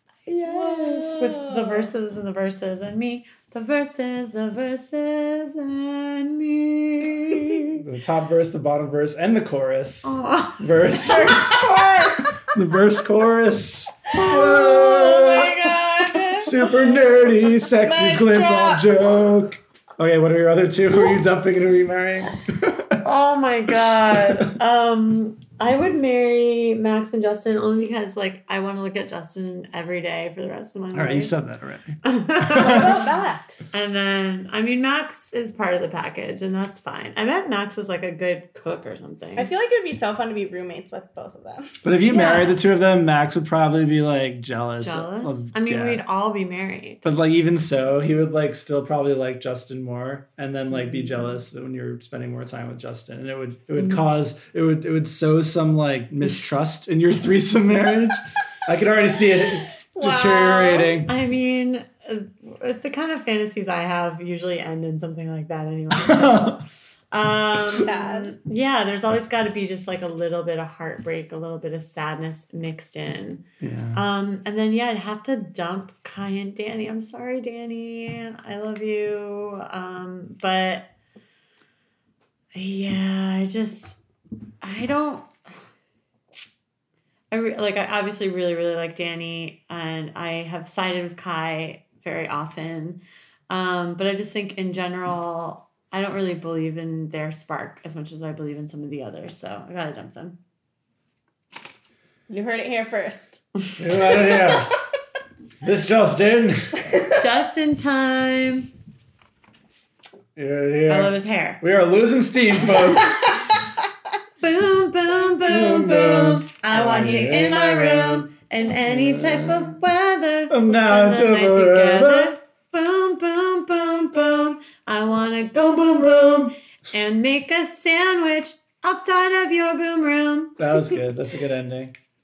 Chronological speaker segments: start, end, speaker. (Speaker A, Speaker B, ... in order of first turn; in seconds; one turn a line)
Speaker A: 0.3-7.8
Speaker B: 0.4-1.9
Speaker B: 7.7-11.7
Speaker A: 10.0-12.3
Speaker C: 11.0-12.4
Speaker B: 12.5-15.6
Speaker C: 14.1-16.9
Speaker B: 16.4-23.0
Speaker C: 17.6-19.2
Speaker A: 23.0-31.4
Speaker B: 23.9-24.6
Speaker B: 30.9-33.0
Speaker A: 32.0-33.0
Speaker C: 32.5-33.7
Speaker A: 33.7-39.5
Speaker C: 39.4-41.8
Speaker B: 41.8-46.0
Speaker A: 42.1-42.6
Speaker A: 44.8-47.0
Speaker B: 47.0-61.1
Speaker A: 50.8-51.3
Speaker C: 59.9-61.0
Speaker A: 61.1-73.4
Speaker B: 65.9-66.6
Speaker C: 67.7-68.3
Speaker B: 73.6-74.0
Speaker A: 73.9-80.9
Speaker A: 82.5-84.0
Speaker A: 84.6-85.5
Speaker A: 87.3-100.4
Speaker C: 102.3-103.4
Speaker B: 103.8-104.8
Speaker C: 104.2-104.8
Speaker B: 105.6-106.9
Speaker C: 106.9-107.2
Speaker A: 107.2-108.7
Speaker B: 110.4-113.4
Speaker A: 110.9-111.6
Speaker A: 114.4-130.6
Speaker B: 115.4-118.3
Speaker B: 118.8-119.8
Speaker B: 120.5-122.4
Speaker B: 125.5-126.5
Speaker B: 130.6-131.9